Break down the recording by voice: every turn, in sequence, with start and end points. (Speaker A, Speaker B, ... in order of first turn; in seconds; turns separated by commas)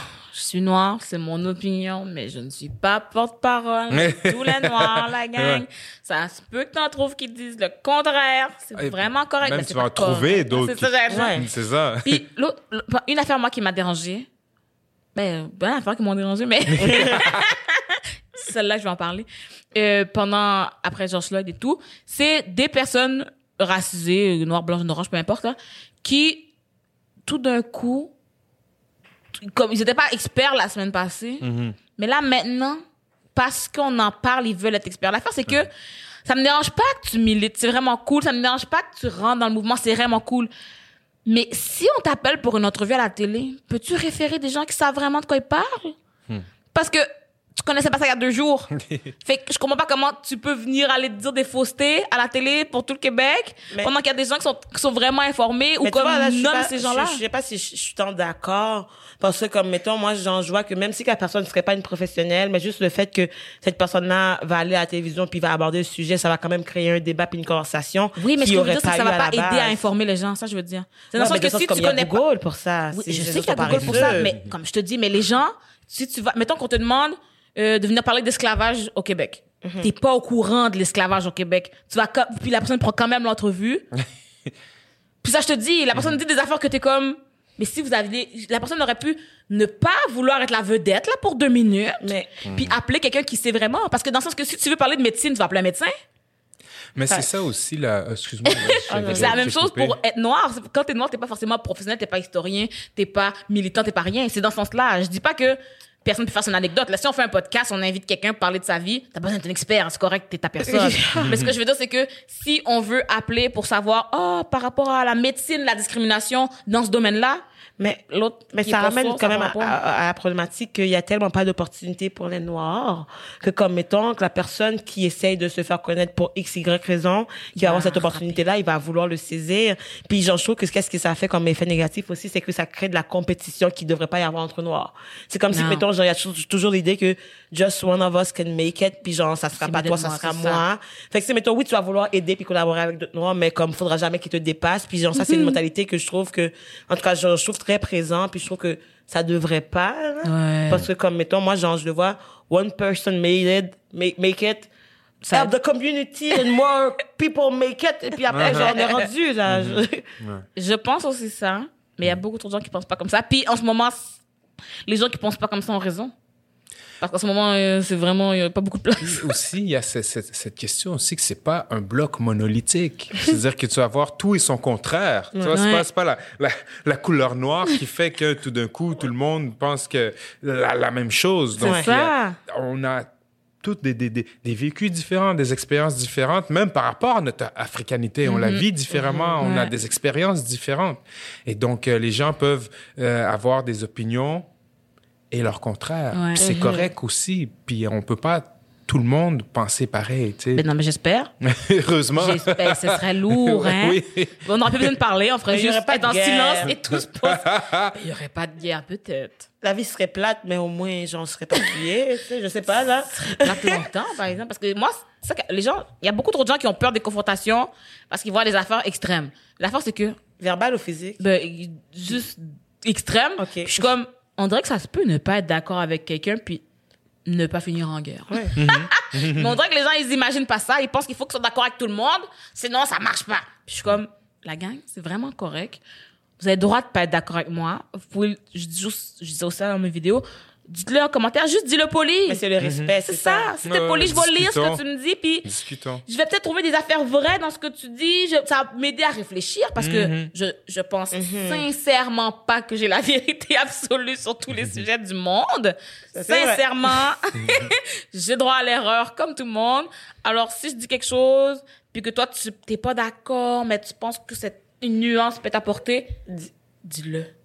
Speaker A: 0.3-11.4, Speaker B: 3.9-5.6, Speaker B: 8.8-12.2, Speaker C: 11.1-11.4, Speaker A: 12.0-14.3, Speaker A: 15.1-26.5, Speaker B: 16.7-17.4, Speaker C: 16.8-17.1, Speaker A: 27.2-28.1, Speaker A: 29.3-32.8, Speaker B: 31.4-31.8, Speaker A: 33.3-35.7, Speaker A: 36.2-40.5, Speaker A: 41.2-46.0, Speaker A: 46.7-47.1, Speaker A: 47.6-57.2, Speaker C: 55.8-69.8, Speaker A: 68.2-72.2, Speaker C: 71.1-74.3, Speaker A: 72.9-83.8, Speaker B: 73.7-74.5, Speaker C: 79.6-79.9, Speaker A: 85.2-95.9, Speaker C: 92.0-92.3, Speaker B: 92.4-92.8, Speaker B: 96.9-100.0, Speaker A: 98.5-117.4, Speaker C: 98.9-99.5, Speaker C: 110.6-111.3, Speaker B: 111.2-111.5, Speaker C: 117.8-154.7, Speaker A: 118.1-119.8, Speaker A: 127.5-128.4, Speaker A: 135.5-135.8, Speaker A: 139.6-140.6, Speaker A: 145.2-145.6, Speaker A: 150.2-150.8, Speaker A: 155.2-155.5, Speaker C: 155.3-160.0, Speaker B: 158.3-158.7, Speaker A: 158.4-159.0, Speaker B: 159.4-160.4, Speaker A: 160.6-164.2, Speaker A: 164.8-166.1, Speaker A: 167.0-169.3, Speaker B: 169.0-183.1, Speaker A: 175.5-175.8, Speaker A: 181.6-182.4, Speaker C: 181.6-181.9, Speaker B: 183.6-194.5, Speaker A: 188.2-188.6, Speaker C: 188.9-189.4, Speaker A: 189.4-189.7, Speaker B: 195.3-200.6, Speaker A: 196.1-196.4, Speaker C: 196.4-196.9, Speaker A: 200.5-201.3, Speaker B: 201.4-204.9, Speaker A: 202.2-209.5, Speaker C: 205.5-206.7, Speaker B: 206.6-207.9, Speaker C: 209.6-213.8, Speaker A: 213.0-220.2, Speaker C: 220.4-221.2, Speaker A: 221.2-226.6, Speaker C: 223.4-223.9, Speaker A: 227.2-235.8, Speaker C: 228.3-228.5, Speaker B: 228.6-229.6, Speaker A: 236.4-242.4, Speaker C: 242.3-243.5, Speaker B: 242.6-242.9, Speaker A: 243.1-245.5, Speaker B: 243.6-244.8, Speaker B: 245.4-246.0, Speaker A: 246.1-266.1, Speaker B: 249.8-250.3, Speaker C: 251.1-251.7, Speaker B: 254.5-254.8, Speaker C: 256.1-257.0, Speaker B: 257.4-257.7, Speaker A: 266.8-267.3